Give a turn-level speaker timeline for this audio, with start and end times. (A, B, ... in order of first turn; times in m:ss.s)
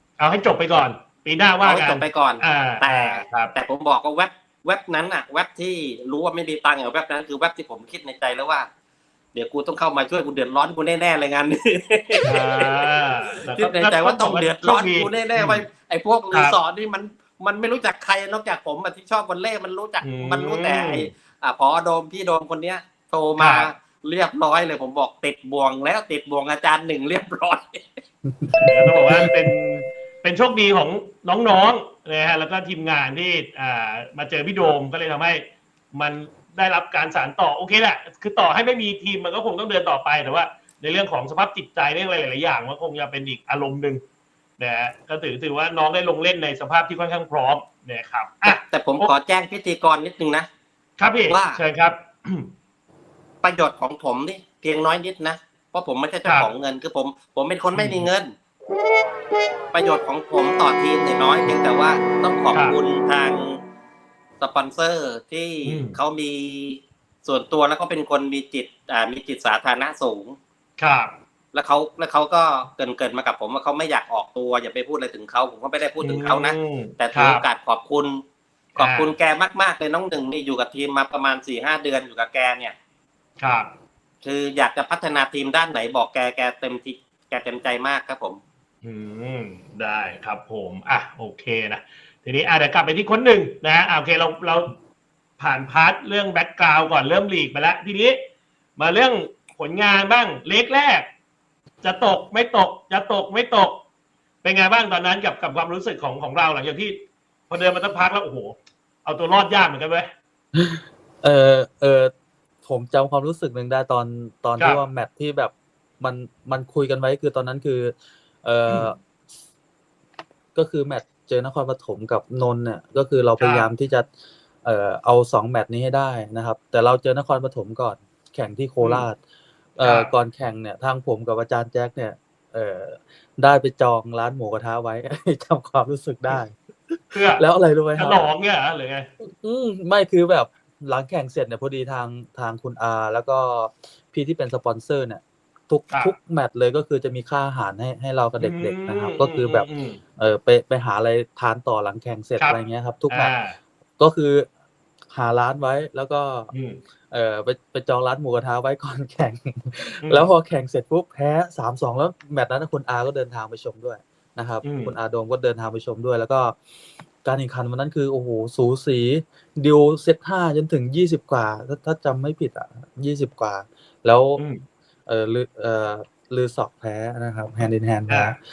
0:00.2-0:03.5 A
0:01.6-0:08.7 B
0:09.3-0:12.9 B
0:12.2-0:15.6 A
0:13.5-0:28.0 B
0:20.0-0:21.1 A
0:23.4-0:23.7 A
0:28.3-0:29.3 C
0:28.6-0:44.0 A
0:44.6-0:49.1 A
0:48.4-0:50.5 B
0:51.0-0:52.5 A
0:51.3-0:51.6 B
0:53.4-0:58.3 B
0:56.2-0:56.5 A
0:57.8-0:58.1 A
0:59.7-1:03.6 B
1:04.4-1:10.4 B
1:05.6-1:06.0 A
1:10.8-1:11.1 A
1:11.5-1:18.2 B
1:16.0-1:17.4 A
1:18.8-1:19.1 A
1:18.8-1:22.8 B
1:23.4-1:23.7 A
1:24.2-1:28.4 B
1:28.8-1:34.8 A
1:35.4-1:38.2 A
1:38.8-1:41.1 A
1:41.8-1:43.8 A
1:44.4-1:50.1 A
1:50.5-1:52.1 C
1:52.6-1:59.0 C
2:00.5-2:04.1 C
2:03.4-2:03.7 A
2:04.6-2:09.2 C
2:08.8-2:09.0 A
2:09.8-2:18.2 C
2:09.8-2:10.1 A
2:17.1-2:17.4 A
2:18.0-2:19.1 A
2:19.2-2:33.3 C
2:25.9-2:26.1 A
2:28.4-2:30.0 A
2:33.1-2:33.6 A
2:34.0-2:34.5 C
2:35.1-2:36.5 C
2:36.5-2:36.8 A
2:37.1-2:46.6 C
2:40.0-2:40.3 A
2:44.6-2:44.9 A
2:47.2-2:54.4 C
2:54.4-2:54.6 A
2:55.1-2:58.4 C
2:58.1-2:58.3 A